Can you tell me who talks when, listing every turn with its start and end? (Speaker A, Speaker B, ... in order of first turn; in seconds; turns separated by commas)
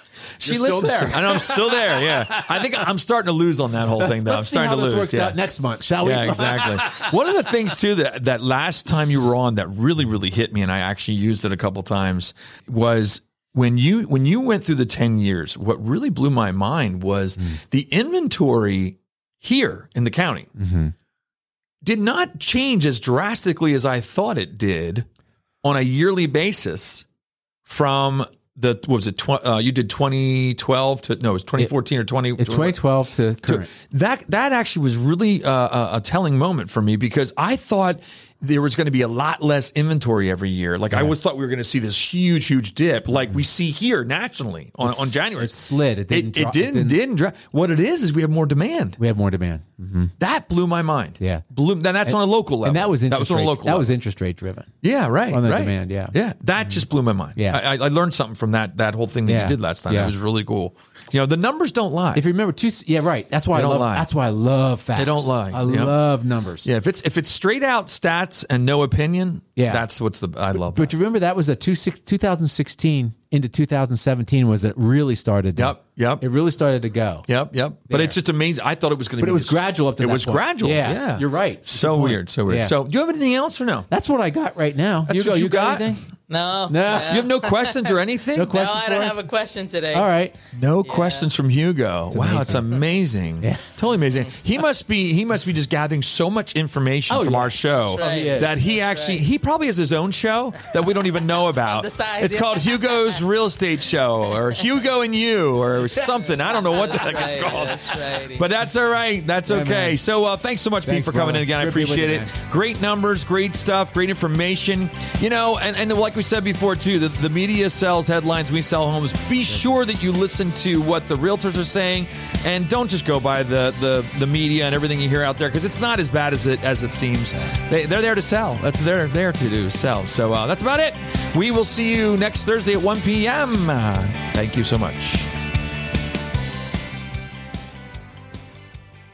Speaker A: 0.4-5.4, Speaker B: 0.4-2.9, Speaker B: 4.0-7.2, Speaker A: 6.0-20.5, Speaker B: 20.6-20.9, Speaker A: 21.8-25.0, Speaker A: 25.6-27.1, Speaker A: 27.6-32.8, Speaker B: 32.4-33.7, Speaker A: 33.4-45.5, Speaker B: 44.8-47.0, Speaker A: 46.1-49.0, Speaker B: 49.0-50.1, Speaker A: 50.2-53.9, Speaker B: 51.2-51.4, Speaker B: 52.0-54.7, Speaker A: 54.8-62.2, Speaker B: 55.3-56.8, Speaker B: 57.4-57.6, Speaker B: 59.2-60.1, Speaker B: 62.1-66.7, Speaker A: 63.5-64.1, Speaker A: 65.0-65.9, Speaker A: 66.6-70.9, Speaker B: 69.6-69.8, Speaker B: 70.5-77.3, Speaker A: 75.6-76.2, Speaker A: 77.3-83.9, Speaker B: 77.9-78.2, Speaker B: 79.2-82.7, Speaker B: 83.9-86.0, Speaker A: 85.1-86.0, Speaker C: 86.3-90.1, Speaker B: 86.7-87.1, Speaker A: 86.9-88.7, Speaker B: 88.3-89.2, Speaker B: 89.9-90.3, Speaker A: 90.5-135.3, Speaker C: 90.8-91.3, Speaker B: 92.1-92.7, Speaker B: 97.1-98.5, Speaker C: 97.8-99.2, Speaker C: 101.4-103.2, Speaker C: 105.9-108.5, Speaker B: 109.5-110.0, Speaker B: 110.8-112.3